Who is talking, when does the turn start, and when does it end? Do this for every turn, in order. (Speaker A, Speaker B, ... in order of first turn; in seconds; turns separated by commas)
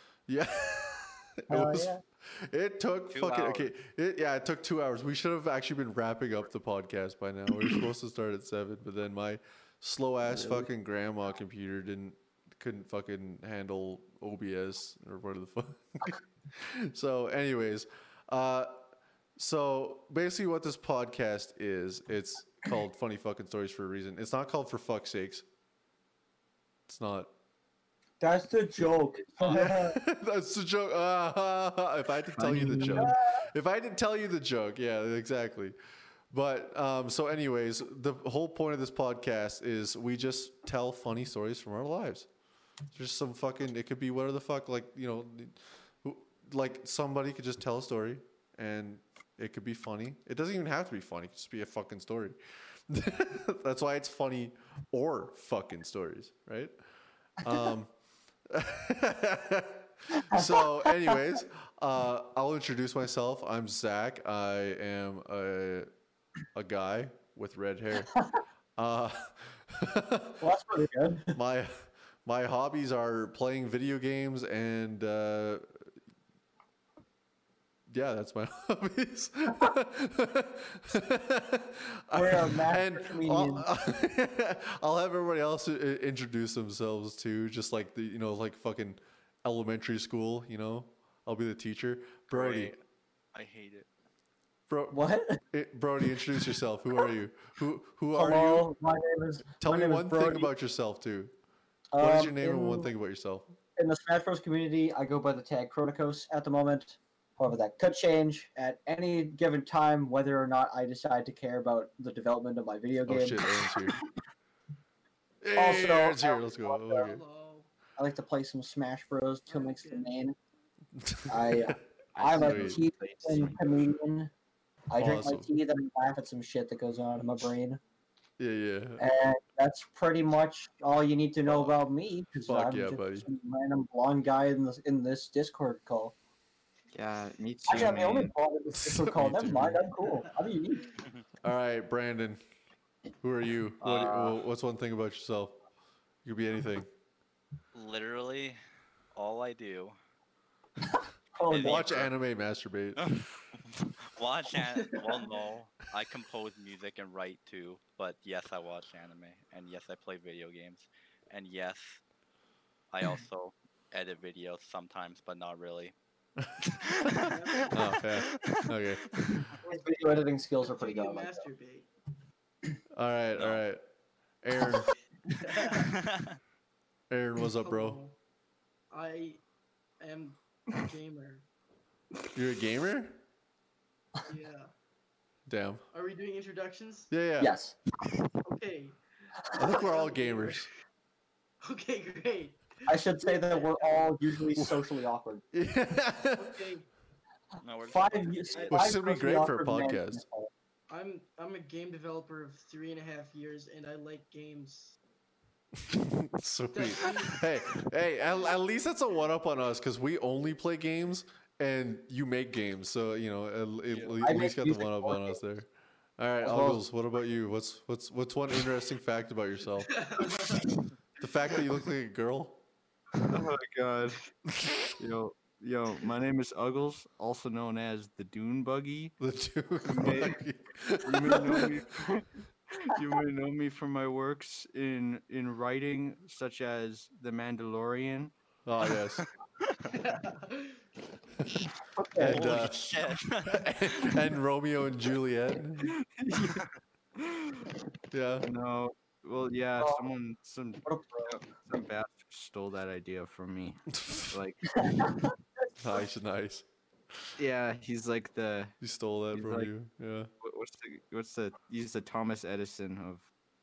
Speaker A: 0.3-18.8, Speaker B: 1.5-2.0, Speaker C: 3.1-3.7, Speaker A: 19.4-25.4, Speaker A: 26.9-27.3, Speaker B: 28.2-30.0, Speaker A: 29.4-35.8, Speaker D: 32.4-33.1, Speaker B: 32.9-33.5, Speaker A: 36.3-42.3, Speaker A: 42.9-52.4, Speaker A: 52.9-56.8, Speaker A: 57.4-57.9, Speaker A: 58.5-65.9, Speaker B: 60.3-61.2, Speaker A: 66.5-68.1, Speaker A: 68.8-70.4, Speaker B: 70.4-71.3, Speaker A: 71.3-75.7, Speaker A: 77.9-92.7, Speaker B: 82.1-83.7, Speaker C: 92.3-92.8, Speaker C: 93.3-93.9, Speaker A: 94.7-98.7, Speaker B: 94.9-95.4, Speaker B: 98.1-100.5, Speaker A: 99.6-101.3, Speaker B: 101.9-102.9, Speaker A: 102.0-103.6, Speaker B: 103.8-113.7, Speaker A: 113.0-114.0, Speaker A: 115.4-117.2, Speaker B: 115.5-116.7, Speaker E: 116.8-117.7, Speaker B: 118.0-120.3, Speaker E: 119.5-120.1, Speaker A: 121.0-121.8, Speaker B: 121.3-124.3, Speaker D: 122.1-123.6, Speaker A: 122.3-122.8, Speaker B: 124.9-127.8, Speaker A: 125.0-125.5, Speaker A: 128.4-129.0, Speaker B: 129.0-136.1, Speaker A: 131.5-131.7, Speaker A: 132.5-133.3, Speaker D: 136.9-138.3, Speaker B: 137.6-140.8, Speaker A: 138.7-139.8, Speaker A: 141.4-142.4, Speaker A: 143.2-145.6, Speaker C: 143.8-144.4, Speaker A: 146.2-146.9, Speaker C: 147.7-148.6, Speaker C: 149.1-150.0, Speaker B: 151.3-151.9, Speaker C: 151.4-152.1, Speaker A: 151.6-153.1, Speaker C: 153.0-162.0, Speaker E: 154.8-155.1, Speaker C: 162.9-165.9, Speaker A: 166.4-169.4, Speaker C: 166.7-168.6, Speaker E: 167.2-167.9, Speaker C: 169.2-169.4, Speaker E: 169.6-171.9, Speaker B: 169.7-171.4, Speaker A: 172.9-173.8, Speaker C: 173.3-173.6, Speaker A: 174.4-174.9, Speaker E: 175.4-175.9, Speaker C: 175.4-176.3, Speaker A: 177.1-178.0, Speaker E: 177.5-178.2, Speaker E: 178.9-179.4, Speaker E: 180.0-181.4, Speaker A: 182.3-183.2, Speaker E: 184.2-184.7, Speaker A: 185.5-185.8, Speaker E: 185.9-187.1, Speaker A: 187.1-187.5, Speaker B: 187.4-187.8, Speaker E: 188.4-189.0, Speaker E: 189.5-190.7, Speaker A: 189.5-190.7, Speaker E: 191.6-194.2, Speaker B: 192.9-195.4, Speaker A: 195.5-196.6, Speaker E: 196.3-196.9, Speaker C: 197.6-198.8, Speaker B: 197.8-200.5, Speaker A: 198.7-200.2, Speaker E: 200.9-205.0, Speaker A: 205.9-220.0, Speaker E: 206.7-207.5, Speaker C: 213.9-214.2, Speaker B: 214.2-215.4, Speaker B: 216.4-216.8, Speaker E: 219.9-220.8, Speaker A: 221.2-222.6, Speaker D: 223.2-224.3, Speaker D: 224.9-229.2, Speaker A: 229.2-231.7, Speaker D: 229.8-230.4, Speaker D: 231.0-238.3, Speaker A: 238.7-239.2, Speaker E: 239.9-240.8, Speaker B: 241.9-242.5, Speaker A: 242.2-245.9, Speaker C: 242.2-244.2, Speaker D: 245.8-246.6, Speaker D: 247.2-247.7, Speaker A: 248.1-248.5, Speaker D: 248.4-255.3, Speaker B: 249.8-250.0, Speaker B: 250.8-251.5, Speaker A: 253.9-254.3, Speaker B: 254.8-255.3, Speaker A: 255.8-256.6, Speaker D: 257.4-258.7, Speaker A: 258.8-260.3, Speaker D: 259.3-259.7, Speaker D: 260.4-263.3